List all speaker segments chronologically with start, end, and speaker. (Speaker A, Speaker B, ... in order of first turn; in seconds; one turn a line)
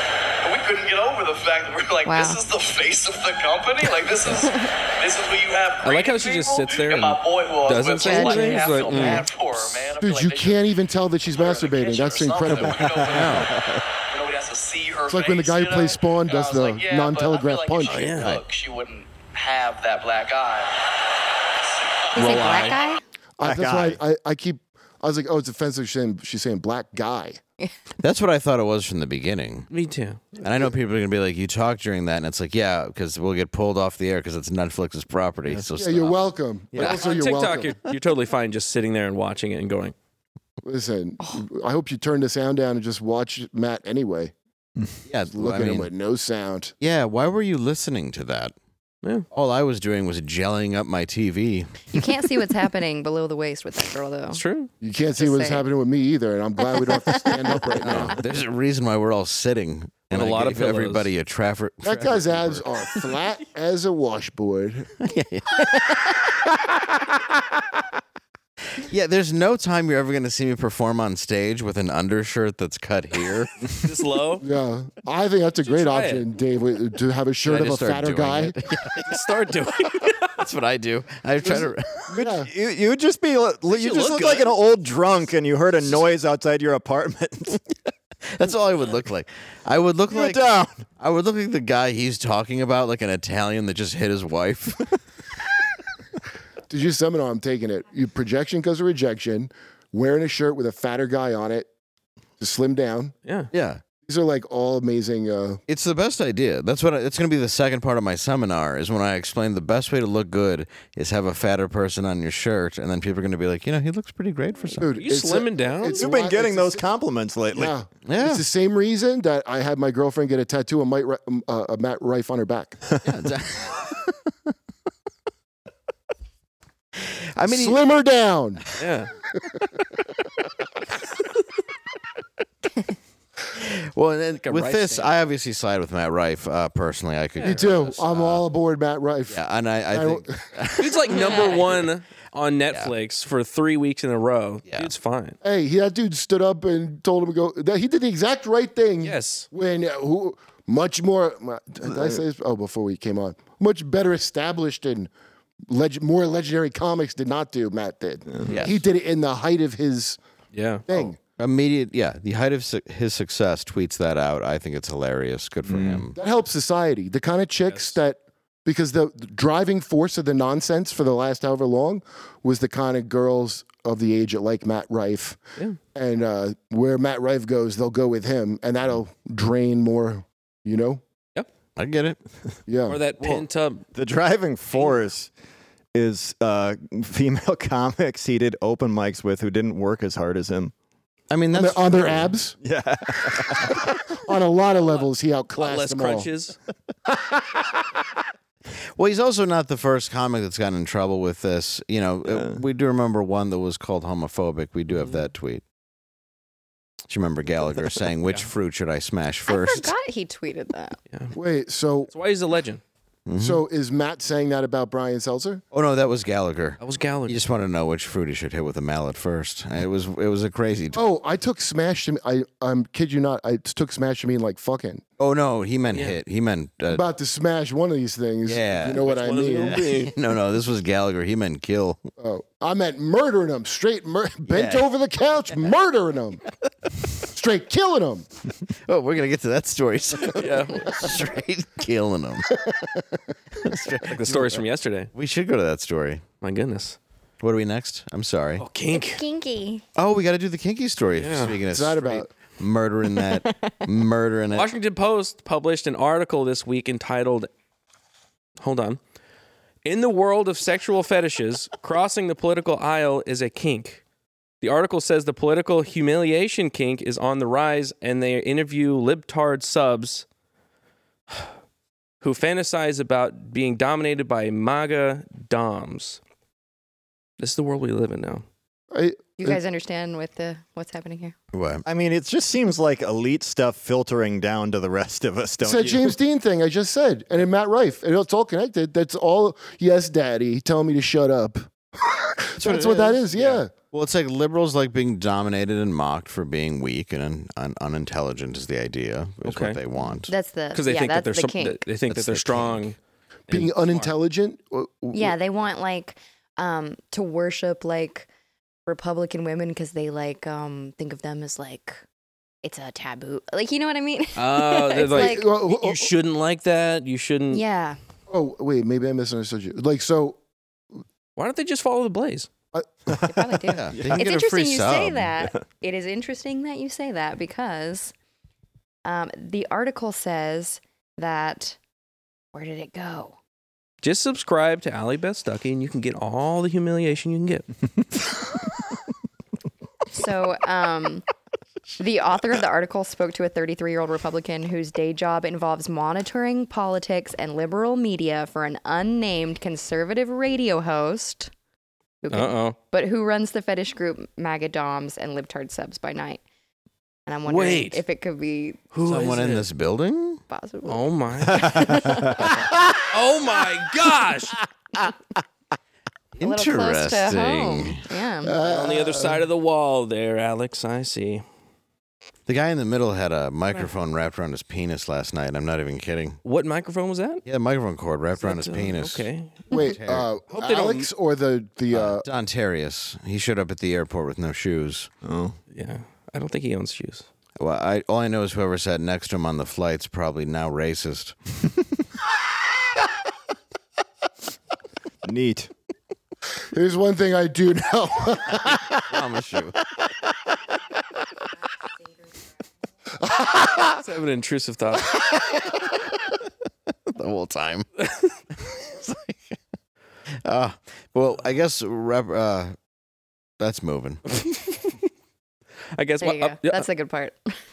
Speaker A: 0.4-10.7
Speaker B: 2.0-2.4
Speaker C: 5.8-9.3
Speaker B: 8.0-9.3
Speaker D: 10.0-13.0
Speaker A: 11.3-13.5
Speaker E: 12.5-13.8
Speaker F: 13.1-13.5
Speaker A: 14.1-20.8
Speaker D: 15.1-18.1
Speaker C: 17.9-18.3
Speaker A: 21.6-22.4
Speaker B: 22.1-23.0
Speaker C: 22.1-22.8
Speaker D: 23.4-27.4
Speaker E: 23.4-24.0
Speaker F: 28.0-29.7
Speaker C: 29.7-30.4
Speaker F: 30.4-36.2
Speaker D: 35.8-37.8
Speaker F: 36.7-37.0
Speaker C: 36.8-40.0
Speaker D: 40.6-44.3
Speaker F: 45.1-45.9
Speaker D: 45.3-46.7
Speaker F: 46.8-48.5
Speaker F: 49.3-52.0
Speaker B: 51.9-54.4
Speaker C: 54.3-54.7
Speaker D: 54.8-58.2
Speaker B: 55.2-55.6
Speaker B: 56.7-58.1
Speaker F: 57.8-62.6
Speaker C: 60.1-61.1
Speaker D: 61.8-64.9
Speaker F: 65.0-66.0
Speaker F: 68.8-73.7
Speaker C: 73.8-74.4
Speaker D: 74.4-78.5
Speaker C: 75.7-76.3
Speaker F: 77.5-79.2
Speaker C: 79.1-80.3
Speaker F: 80.2-82.2
Speaker E: 82.1-87.6
Speaker D: 82.2-82.5
Speaker C: 83.7-84.5
Speaker F: 88.3-95.0
Speaker E: 90.1-90.8
Speaker D: 96.7-101.7
Speaker D: 102.4-103.1
Speaker C: 103.2-103.5
Speaker F: 103.5-103.8
Speaker D: 104.0-105.6
Speaker F: 105.7-114.9
Speaker D: 114.8-116.8
Speaker C: 115.0-116.1
Speaker E: 115.9-117.7
Speaker D: 117.5-122.8
Speaker F: 118.1-118.4
Speaker F: 123.0-124.1
Speaker F: 127.4-127.8
Speaker D: 127.4-128.6
Speaker C: 128.8-129.1
Speaker F: 133.5-138.4
Speaker C: 134.4-135.1
Speaker D: 137.4-140.3
Speaker F: 139.3-141.6
Speaker C: 140.8-145.4
Speaker B: 141.1-141.6
Speaker D: 145.4-155.1
Speaker C: 149.0-149.5
Speaker D: 155.7-160.2
Speaker E: 158.3-158.6
Speaker F: 158.5-158.8
Speaker C: 160.5-160.8
Speaker D: 160.9-161.2
Speaker F: 161.4-166.1
Speaker E: 165.7-166.1
Speaker D: 166.2-175.4
Speaker C: 167.7-168.0
Speaker D: 175.9-181.0
Speaker F: 181.8-182.2
Speaker D: 182.7-183.0
Speaker C: 182.9-183.8
Speaker E: 183.9-185.3
Speaker E: 185.9-190.7
Speaker F: 191.3-192.3
Speaker D: 191.5-192.6
Speaker E: 192.6-193.7
Speaker D: 193.7-196.3
Speaker C: 195.6-196.6
Speaker D: 197.1-198.1
Speaker F: 199.0-205.6
Speaker E: 202.3-202.6
Speaker C: 204.9-205.3
Speaker F: 207.1-209.9
Speaker B: 209.5-211.0
Speaker D: 211.3-212.1
Speaker C: 212.1-212.8
Speaker F: 213.3-213.6
Speaker D: 213.4-215.6
Speaker F: 215.7-221.0
Speaker C: 216.8-217.4
Speaker D: 220.9-225.0
Speaker F: 225.2-227.0
Speaker C: 225.9-226.2
Speaker D: 226.9-229.8
Speaker F: 228.5-229.0
Speaker C: 229.0-230.1
Speaker F: 229.6-232.1
Speaker D: 232.2-236.4
Speaker F: 234.5-234.9
Speaker D: 237.2-238.3
Speaker F: 238.9-242.6
Speaker C: 240.2-241.1
Speaker F: 243.6-246.2
Speaker C: 244.1-245.1
Speaker C: 246.4-247.0
Speaker F: 247.4-248.6
Speaker C: 248.6-249.2
Speaker B: 248.9-249.8
Speaker F: 250.0-254.7
Speaker C: 251.2-251.6
Speaker D: 251.7-252.3
Speaker B: 253.2-253.9
Speaker C: 254.5-257.5
Speaker C: 258.6-259.0
Speaker C: 259.9-264.0
Speaker C: 264.6-270.3
Speaker C: 272.2-276.2
Speaker C: 277.4-278.4
Speaker D: 278.9-279.6
Speaker B: 279.4-281.3
Speaker F: 281.5-281.9
Speaker E: 281.9-286.1
Speaker D: 285.6-293.7
Speaker F: 292.6-293.3
Speaker F: 293.9-300.3
Speaker C: 299.4-299.8
Speaker B: 300.3-301.8
Speaker C: 300.7-303.0
Speaker F: 302.1-302.9
Speaker C: 303.5-304.1
Speaker D: 303.5-305.4
Speaker B: 305.1-308.3
Speaker B: 308.9-312.0
Speaker B: 312.6-315.5
Speaker C: 314.4-317.6
Speaker D: 315.1-316.1
Speaker B: 317.5-318.0
Speaker D: 318.3-320.4
Speaker C: 321.4-322.5
Speaker D: 322.7-323.3
Speaker B: 323.2-328.1
Speaker F: 323.7-325.3
Speaker E: 323.9-324.2
Speaker B: 329.1-331.8
Speaker B: 332.5-333.4
Speaker C: 334.0-337.7
Speaker B: 340.1-341.2
Speaker B: 341.9-351.5
Speaker B: 352.2-356.4
Speaker C: 352.3-352.8
Speaker B: 357.3-358.9
Speaker C: 357.5-358.0
Speaker C: 358.9-359.7
Speaker F: 359.1-360.4
Speaker B: 360.5-362.8
Speaker C: 360.9-361.9
Speaker C: 363.1-364.6
Speaker F: 366.4-368.1
Speaker B: 366.4-368.6
Speaker D: 368.4-369.4
Speaker C: 368.6-371.4
Speaker F: 372.5-376.4
Speaker C: 376.4-377.4
Speaker F: 377.4-380.3
Speaker C: 378.4-379.7
Speaker D: 379.7-382.2
Speaker C: 380.5-381.1
Speaker F: 381.9-385.1
Speaker E: 385.2-385.6
Speaker C: 385.7-387.3
Speaker F: 387.6-391.4
Speaker E: 395.2-395.7
Speaker D: 396.7-399.2
Speaker F: 399.0-399.8
Speaker D: 403.2-404.0
Speaker C: 404.0-405.1
Speaker D: 405.1-405.8
Speaker F: 407.1-407.9
Speaker F: 408.6-409.5
Speaker F: 410.4-412.8
Speaker F: 413.6-414.2
Speaker C: 414.3-415.0
Speaker C: 416.0-416.9
Speaker B: 416.2-417.6